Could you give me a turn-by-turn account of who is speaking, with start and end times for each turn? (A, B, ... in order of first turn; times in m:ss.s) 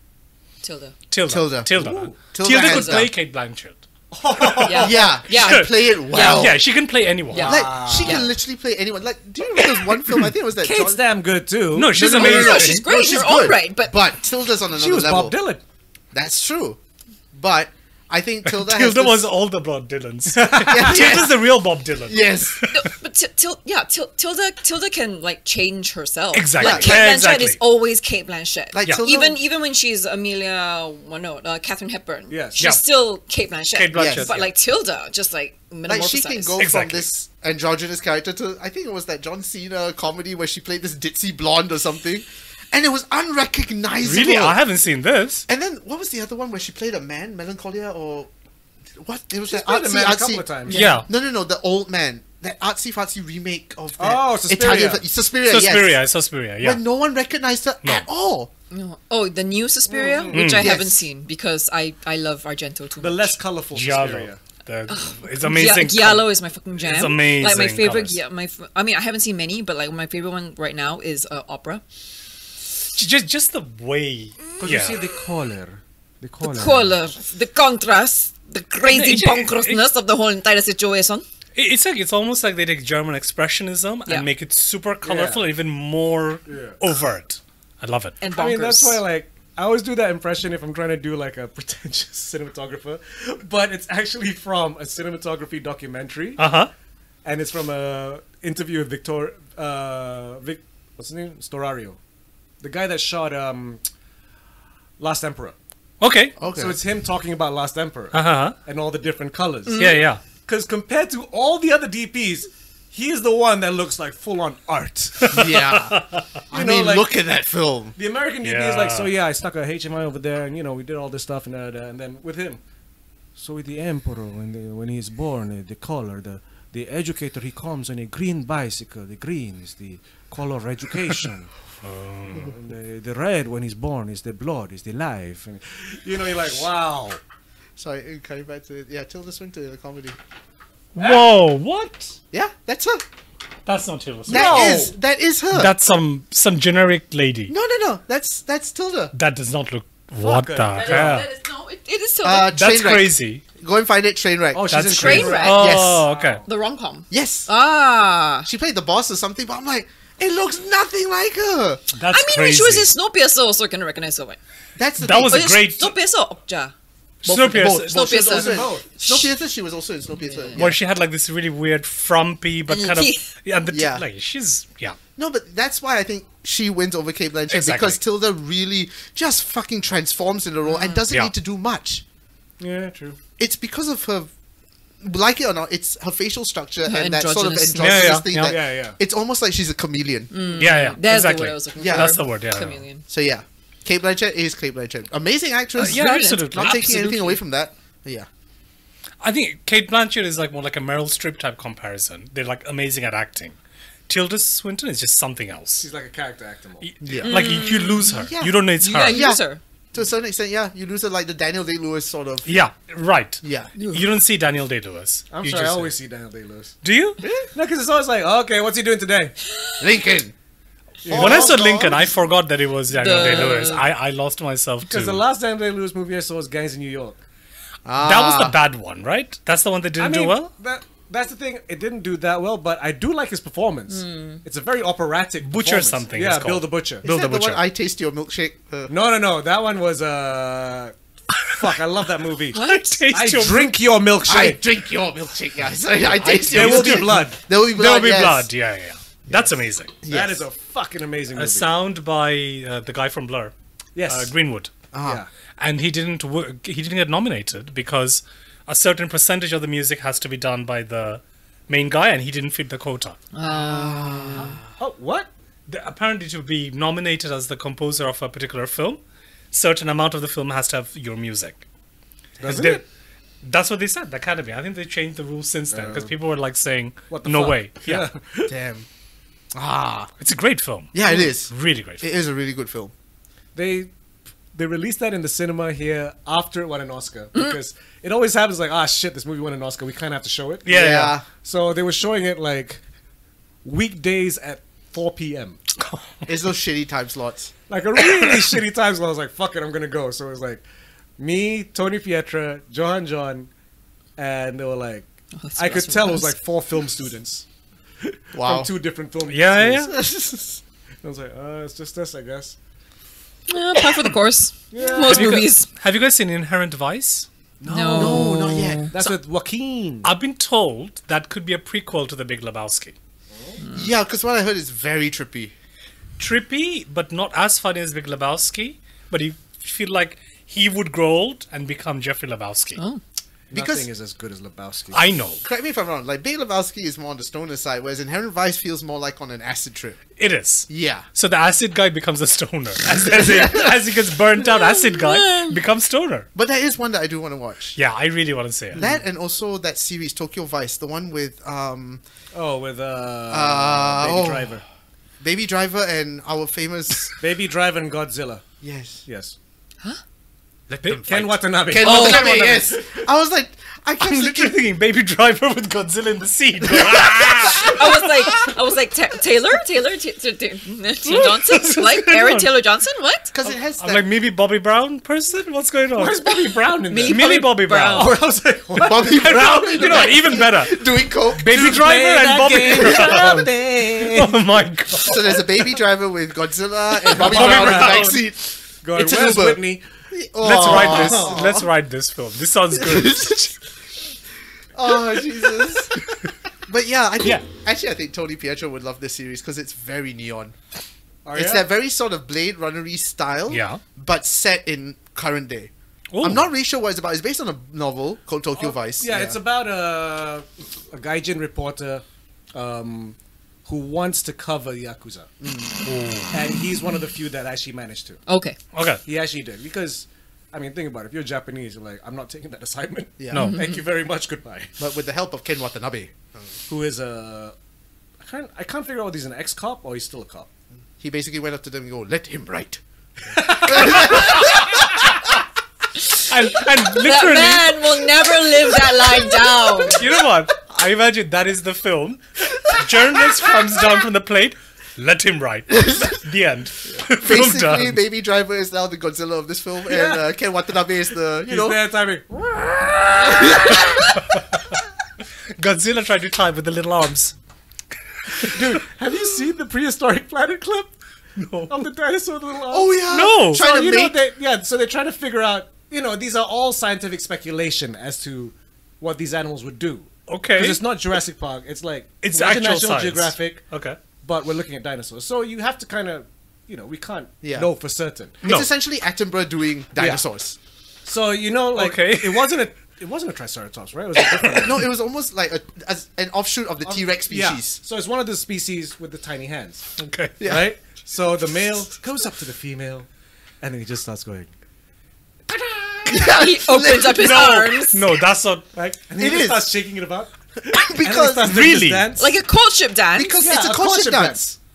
0:00.6-0:00.9 A
0:01.1-0:03.8 B
0:01.3-0:03.1 C
0:01.7-0:02.2 D
0:02.5-0:03.0 A
0:04.1-0:05.0 D
0:04.3-0:07.7 B
0:04.6-0:06.5 A
0:04.7-0:06.6 C
0:07.3-0:08.3 A
0:07.3-0:08.3 D
0:07.4-0:11.0 C
0:10.6-0:12.5 D
0:11.7-0:12.8 B
0:11.9-0:15.4 C
0:12.1-0:14.0 A
0:14.7-0:15.6 D
0:16.1-0:16.8 C
0:17.3-0:19.3 C
0:18.5-0:22.8 B
0:20.3-0:21.2 D
0:20.6-0:21.4 C
0:22.0-0:22.6 C
0:22.7-0:36.6 A
0:26.3-0:27.6 B
0:26.6-0:27.0 C
0:28.7-0:29.4 C
0:32.3-0:32.6 D
0:33.7-0:34.5 B
0:33.9-0:34.3 C
0:35.9-0:44.6 C
0:36.6-0:37.1 B
0:44.0-0:45.4 B
0:45.5-0:48.3 C
0:49.0-0:56.0 C
0:49.5-0:50.8 D
0:50.7-0:51.0 A
0:50.7-0:51.1 B
0:54.0-0:55.0 D
0:55.4-0:56.8 B
0:56.6-0:58.5 C
0:58.7-1:03.4 A
0:59.9-1:00.5 D
1:00.3-1:00.8 B
1:00.6-1:01.0 C
1:03.0-1:04.4 D
1:03.7-1:08.2 B
1:04.9-1:11.8 A
1:12.9-1:15.0 B
1:14.6-1:17.0 D
1:16.4-1:21.2 A
1:18.8-1:19.8 B
1:21.5-1:28.2 B
1:25.0-1:25.4 D
1:26.5-1:26.8 D
1:28.2-1:29.0 A
1:28.3-1:36.4 D
1:36.4-1:36.7 B
1:37.2-1:42.0 D
1:42.6-1:43.8 D
1:45.0-1:45.5 D
1:46.0-1:46.3 B
1:46.4-1:46.8 C
1:46.5-1:55.4 D
1:48.1-1:48.5 B
1:49.7-1:50.0 A
1:49.8-1:50.2 B
1:55.2-1:56.2 B
1:55.3-1:57.9 C
1:56.5-1:57.1 D
1:58.0-2:02.6 D
1:58.4-1:59.1 B
2:03.4-2:11.5 D
2:11.8-2:12.5 B
2:12.3-2:17.2 D
2:17.8-2:20.2 C
2:20.9-2:22.1 B
2:21.0-2:21.2 D
2:22.3-2:23.0 C
2:23.6-2:24.9 B
2:24.3-2:24.9 D
2:24.3-2:25.7 C
2:25.5-2:27.5 B
2:27.5-2:29.1 C
2:29.1-2:31.3 B
2:30.2-2:31.2 D
2:30.8-2:32.5 A
2:32.2-2:36.0 C
2:32.5-2:33.4 B
2:34.5-2:36.4 D
2:34.7-2:36.4 B
2:34.9-2:35.8 A
2:36.4-2:38.5 A
2:37.1-2:37.5 C
2:38.4-2:41.9 C
2:41.9-2:42.9 B
2:42.1-2:44.4 A
2:44.8-2:45.6 C
2:45.0-2:45.9 B
2:45.3-2:46.7 A
2:47.2-2:48.2 B
2:47.2-2:50.8 C
2:47.8-2:49.3 A
2:48.2-2:48.8 D
2:50.2-2:50.6 A
2:50.6-2:55.0 B
2:52.7-2:53.2 A
2:53.7-2:54.0 C
2:55.2-3:02.0 C
2:57.5-2:58.0 B
3:00.7-3:01.0 A
3:02.6-3:03.2 D
3:03.4-3:04.3 C
3:05.0-3:10.3 C
3:06.8-3:08.2 A
3:07.7-3:08.6 B
3:08.4-3:09.0 D
3:10.3-3:13.0 A
3:10.6-3:12.8 B
3:11.8-3:12.2 C
3:13.1-3:18.3 C
3:15.8-3:17.0 A
3:15.8-3:17.4 B
3:19.2-3:23.6 B
3:24.1-3:25.9 B
3:25.8-3:26.9 D
3:26.8-3:29.3 B
3:27.0-3:27.6 C
3:27.2-3:28.2 A
3:28.1-3:29.4 C
3:28.8-3:29.6 A
3:29.9-3:32.5 C
3:32.4-3:35.9 B
3:33.4-3:33.8 C
3:35.3-3:36.8 D
3:36.8-3:37.2 B
3:37.2-3:37.5 C
3:37.5-3:39.3 D
3:39.8-3:40.3 C
3:41.0-3:42.0 D
3:41.0-3:42.0 C
3:41.1-3:45.2 B
3:42.9-3:43.8 A
3:43.1-3:43.5 D
3:44.8-3:47.2 D
3:47.8-3:48.6 C
3:48.0-3:50.5 B
3:50.0-3:57.0 D
3:53.9-3:54.4 A
3:55.4-3:57.6 B
3:57.0-3:58.9 C
3:58.9-4:00.9 D
4:01.4-4:02.6 D
4:02.5-4:03.0 A
4:02.5-4:03.7 B
4:03.1-4:04.6 D
4:04.2-4:08.5 C
4:06.2-4:09.9 B
4:06.4-4:07.4 D
4:10.0-4:10.4 C
4:10.1-4:11.7 D
4:11.3-4:13.5 B
4:13.9-4:14.3 D
4:14.1-4:14.7 B
4:14.9-4:15.2 C
4:15.0-4:15.3 D
4:15.6-4:23.2 B
4:23.3-4:24.6 A
4:23.4-4:24.6 C
4:24.8-4:25.3 D
4:25.7-4:29.0 B
4:29.5-4:31.6 B
4:32.4-4:32.8 D
4:32.4-4:32.8 B
4:33.4-4:38.0 B
4:35.7-4:36.1 D
4:37.1-4:38.5 D
4:38.5-4:38.8 C
4:39.5-4:40.1 C
4:40.2-4:42.1 B
4:40.9-4:42.9 C
4:43.5-4:43.9 D
4:44.5-4:52.8 D
4:50.6-4:51.1 B
4:50.7-4:51.2 C
4:53.6-4:55.6 D
4:55.8-4:56.1 B
4:56.2-4:57.5 C
4:57.7-5:00.6 D
4:58.1-4:58.4 B
5:01.2-5:03.5 D
5:04.2-5:07.4 D
5:05.4-5:06.3 A
5:08.0-5:09.9 D
5:08.3-5:08.7 C
5:09.3-5:09.9 B
5:09.9-5:10.6 C
5:11.0-5:12.6 D
5:13.5-5:15.7 A
5:14.7-5:15.5 D
5:15.0-5:17.3 B
5:17.6-5:20.1 D
5:17.6-5:18.9 A
5:17.9-5:19.0 C
5:20.0-5:23.0 B
5:23.3-5:23.6 D
5:23.6-5:23.9 A
5:23.7-5:25.5 C
5:26.2-5:32.8 B
5:33.5-5:35.0 D
5:33.5-5:33.9 C
5:34.9-5:35.4 B
5:35.4-5:40.0 C
5:40.2-5:46.3 B
5:40.7-5:41.1 C
5:43.0-5:43.7 C
5:44.5-5:45.6 A
5:46.3-5:47.8 C
5:47.8-5:48.8 B
5:48.8-5:52.0 C
5:52.3-5:54.6 D
5:53.3-5:54.5 C
5:55.2-5:57.1 C
5:57.2-5:58.4 D
5:58.6-5:59.0 C
5:59.0-5:59.3 D
6:00.7-6:01.0 C
6:00.8-6:02.6 B
6:00.9-6:03.0 D
6:01.6-6:04.6 C
6:01.8-6:02.4 A
6:04.0-6:08.5 B
6:06.6-6:07.8 C
6:07.6-6:13.3 A
6:11.0-6:12.5 B
6:13.3-6:14.0 C
6:13.4-6:16.3 B
6:15.9-6:20.1 D
6:16.9-6:18.2 A
6:17.0-6:18.2 B
6:18.8-6:21.8 C
6:18.9-6:25.4 B
6:21.5-6:24.4 D
6:22.8-6:23.5 C
6:25.0-6:31.7 C
6:27.0-6:28.2 D
6:27.1-6:28.2 B
6:28.8-6:29.8 D
6:30.4-6:33.5 B
6:30.5-6:31.6 D
6:32.7-6:33.6 C
6:34.7-6:36.0 C
6:36.7-6:40.6 C
6:41.2-6:41.7 D
6:41.3-6:49.4 C
6:43.5-6:43.8 B
6:46.1-6:46.4 B
6:48.6-6:52.0 D
6:52.5-6:55.3 D
6:55.4-6:55.7 C
6:55.8-6:56.3 B
6:56.3-6:58.2 D
6:58.3-6:58.6 A
6:58.7-6:59.0 B
6:59.0-7:04.7 D
7:03.2-7:03.5 C
7:03.3-7:03.6 B
7:03.3-7:03.8 A
7:04.8-7:06.5 C
7:06.7-7:07.5 D
7:08.2-7:10.5 D
7:11.0-7:12.8 C
7:13.3-7:14.4 D
7:13.5-7:14.8 C
7:16.2-7:18.0 B
7:16.9-7:20.0 A
7:19.9-7:28.0 B
7:25.7-7:26.2 C
7:27.2-7:31.8 C
7:29.9-7:30.2 D
7:31.4-7:33.9 D
7:33.2-7:34.0 C
7:33.8-7:34.7 B
7:35.6-7:37.3 B
7:38.3-7:38.6 B
7:38.4-7:40.9 D
7:41.4-7:41.9 B
7:41.7-7:53.6 D
7:42.7-7:44.2 C
7:43.1-7:43.6 B
7:50.3-7:50.8 B
7:52.2-7:54.0 B
7:54.2-7:58.4 D
7:57.4-7:57.7 C
7:58.4-8:00.6 C
7:58.4-7:58.7 B
8:00.0-8:00.2 D
8:01.0-8:04.9 D
8:01.7-8:02.6 B
8:04.3-8:04.7 B
8:04.6-8:07.8 C
8:06.8-8:13.1 D
8:10.0-8:10.4 B
8:10.4-8:10.7 C
8:13.6-8:14.5 D
8:15.5-8:16.2 D
8:16.0-8:17.5 C
8:16.1-8:18.0 A
8:16.9-8:18.7 B
8:18.7-8:22.3 D
8:19.2-8:19.7 C
8:20.6-8:21.7 C
8:21.4-8:22.1 B
8:22.2-8:23.4 A
8:23.1-8:24.6 C
8:23.4-8:24.4 D